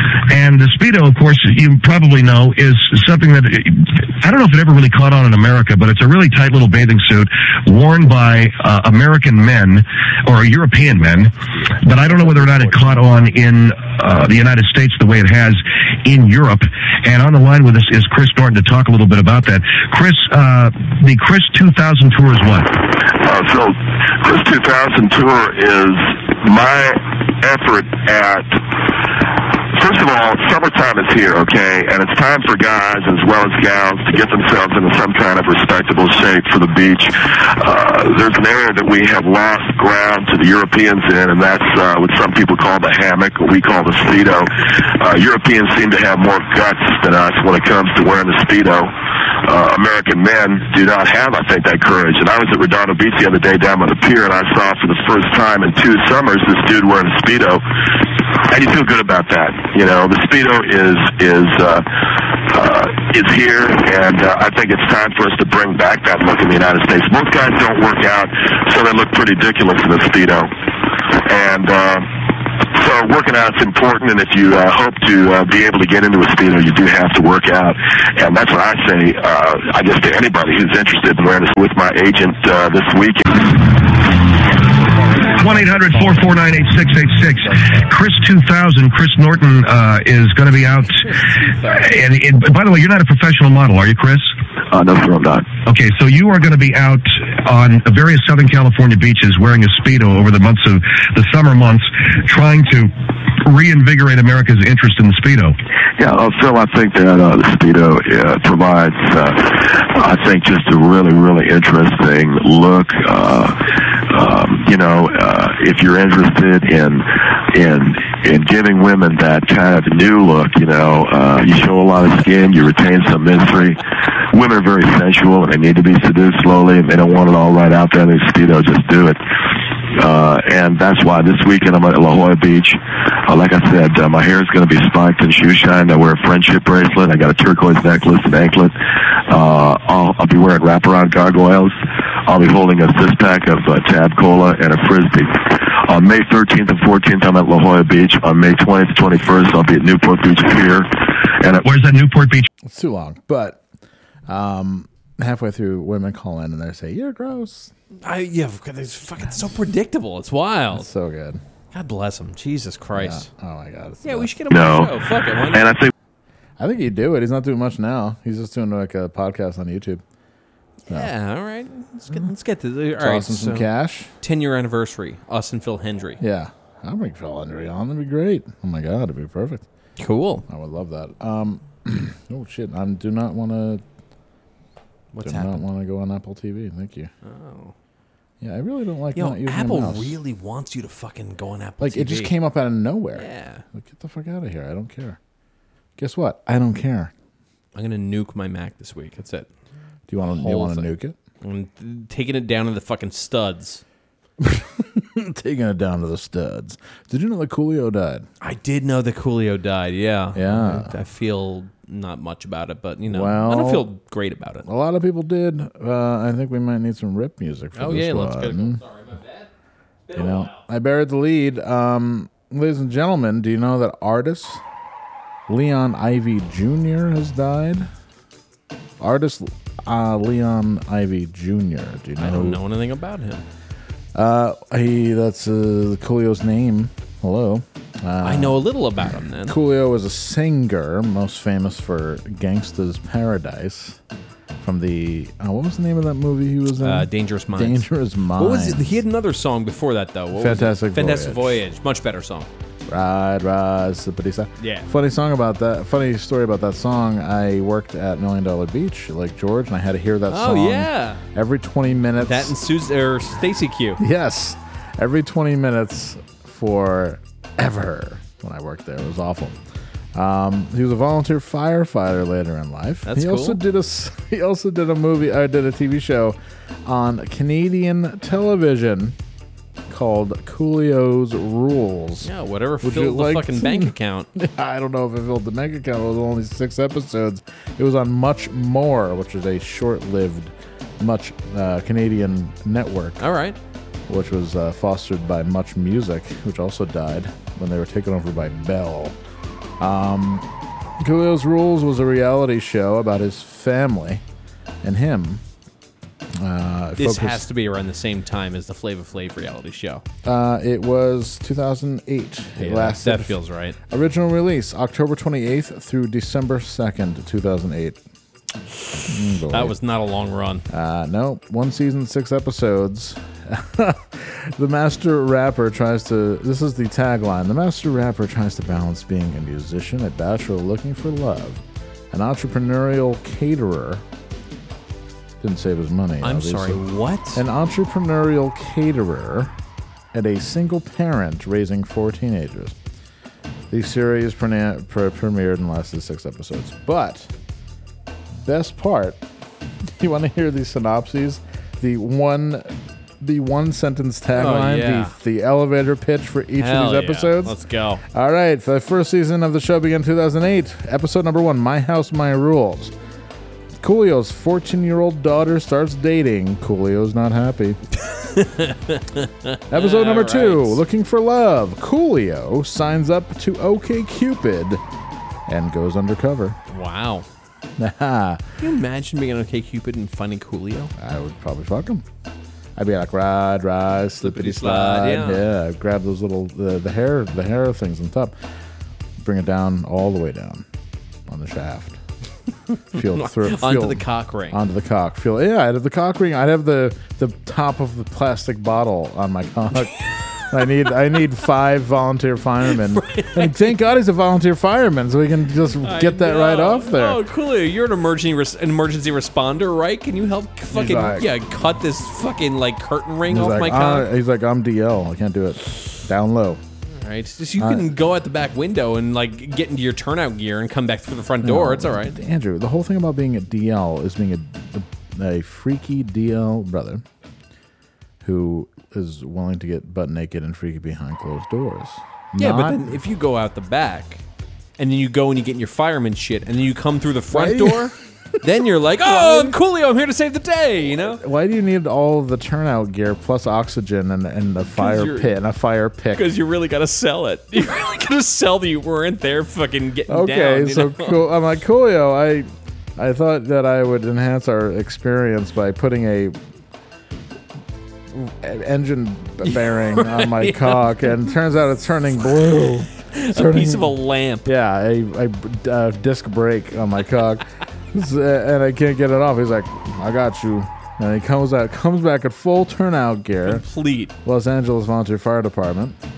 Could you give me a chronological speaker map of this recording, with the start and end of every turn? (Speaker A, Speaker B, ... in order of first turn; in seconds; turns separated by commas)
Speaker A: 0.3-22.7, Speaker B: 23.1-28.6, Speaker B: 29.8-48.9, Speaker B: 49.5-57.6, Speaker B: 58.5-61.9, Speaker B: 62.5-70.5, Speaker B: 71.2-72.1, Speaker B: 72.6-83.7, Speaker A: 85.3-91.0, Speaker C: 85.4-87.9, Speaker D: 91.0-91.9, Speaker A: 91.7-94.3, Speaker B: 94.7-95.6, Speaker A: 95.5-105.5, Speaker B: 106.0-113.6, Speaker B: 114.1-123.8, Speaker B: 124.3-129.2, Speaker B: 130.0-138.8, Speaker B: 139.3-141.7, Speaker B: 142.3-151.7, Speaker A: 151.6-152.5, Speaker C: 152.7-153.6, Speaker C: 154.3-157.7, Speaker D: 158.1-160.9, Speaker C: 160.7-161.4, Speaker D: 161.7-163.3, Speaker C: 162.9-164.3, Speaker D: 164.0-165.8, Speaker B: 164.5-164.9, Speaker B: 165.5-165.9, Speaker C: 166.6-170.0, Speaker D: 170.9-173.7, Speaker C: 173.0-174.1, Speaker D: 174.2-176.2, Speaker C: 176.2-179.7, Speaker D: 180.0-180.4, Speaker C: 180.5-183.8, Speaker D: 185.1-185.6, Speaker C: 185.2-187.1, Speaker D: 187.2-187.7, Speaker C: 188.4-190.2, Speaker D: 189.2-192.3, Speaker C: 191.8-195.2, Speaker D: 193.2-193.6, Speaker C: 196.0-197.1, Speaker D: 197.8-199.5, Speaker C: 200.1-201.2, Speaker D: 200.3-203.8, Speaker C: 204.4-208.3, Speaker D: 208.4-214.7, Speaker C: 210.3-210.9, Speaker C: 213.1-213.9, Speaker C: 214.7-218.8, Speaker D: 217.8-219.5, Speaker D: 220.1-220.6, Speaker C: 220.1-224.6, Speaker C: 225.5-227.9, Speaker C: 229.0-232.6, Speaker D: 232.2-233.4, Speaker C: 234.2-238.6, Speaker D: 238.2-239.6, Speaker C: 239.4-244.0, Speaker C: 244.6-249.0, Speaker D: 246.8-252.5, Speaker C: 250.3-251.6, Speaker C: 252.9-262.5, Speaker D: 254.6-254.9, Speaker D: 260.3-261.2, Speaker D: 262.2-264.0, Speaker C: 264.0-269.6, Speaker C: 270.1-279.2, Speaker D: 273.1-273.6, Speaker C: 279.9-282.3, Speaker D: 282.2-284.3, Speaker C: 282.8-293.2, Speaker D: 293.2-293.6, Speaker C: 294.1-299.2, Speaker C: 299.8-300.4, Speaker C: 301.0-304.2, Speaker C: 304.8-305.4, Speaker C: 306.4-307.5, Speaker D: 307.0-310.0, Speaker C: 310.2-318.0, Speaker D: 312.6-313.8, Speaker C: 319.1-319.8, Speaker D: 319.5-320.6, Speaker C: 320.7-334.0, Speaker C: 335.4-339.5, Speaker D: 336.2-337.4, Speaker C: 340.1-342.8, Speaker C: 343.7-347.3, Speaker C: 348.4-349.2, Speaker C: 350.0-352.7, Speaker C: 353.2-357.6, Speaker D: 354.4-355.1, Speaker D: 356.6-358.0, Speaker C: 358.1-362.9, Speaker C: 363.8-367.8, Speaker D: 368.1-370.8, Speaker C: 369.7-374.8, Speaker C: 375.5-376.6, Speaker D: 376.7-377.3, Speaker C: 377.8-378.4, Speaker D: 378.6-380.9, Speaker C: 381.0-382.1, Speaker C: 382.8-388.4, Speaker D: 384.2-385.4, Speaker C: 389.2-390.7, Speaker C: 391.3-392.0, Speaker C: 392.9-407.2, Speaker D: 392.9-394.6, Speaker D: 402.7-403.7, Speaker D: 405.8-414.1, Speaker C: 410.7-411.3, Speaker C: 413.3-416.6, Speaker D: 417.0-422.2, Speaker C: 417.6-417.9, Speaker C: 421.4-427.0, Speaker C: 428.2-432.9, Speaker D: 432.4-434.2, Speaker D: 434.8-441.2, Speaker C: 437.3-437.9, Speaker C: 439.0-439.6, Speaker C: 441.0-446.3, Speaker D: 444.8-445.3, Speaker D: 446.1-451.2, Speaker C: 450.1-456.4, Speaker C: 458.1-473.6, Speaker D: 459.4-461.1, Speaker D: 463.1-464.5, Speaker D: 473.4-474.1, Speaker C: 474.2-476.0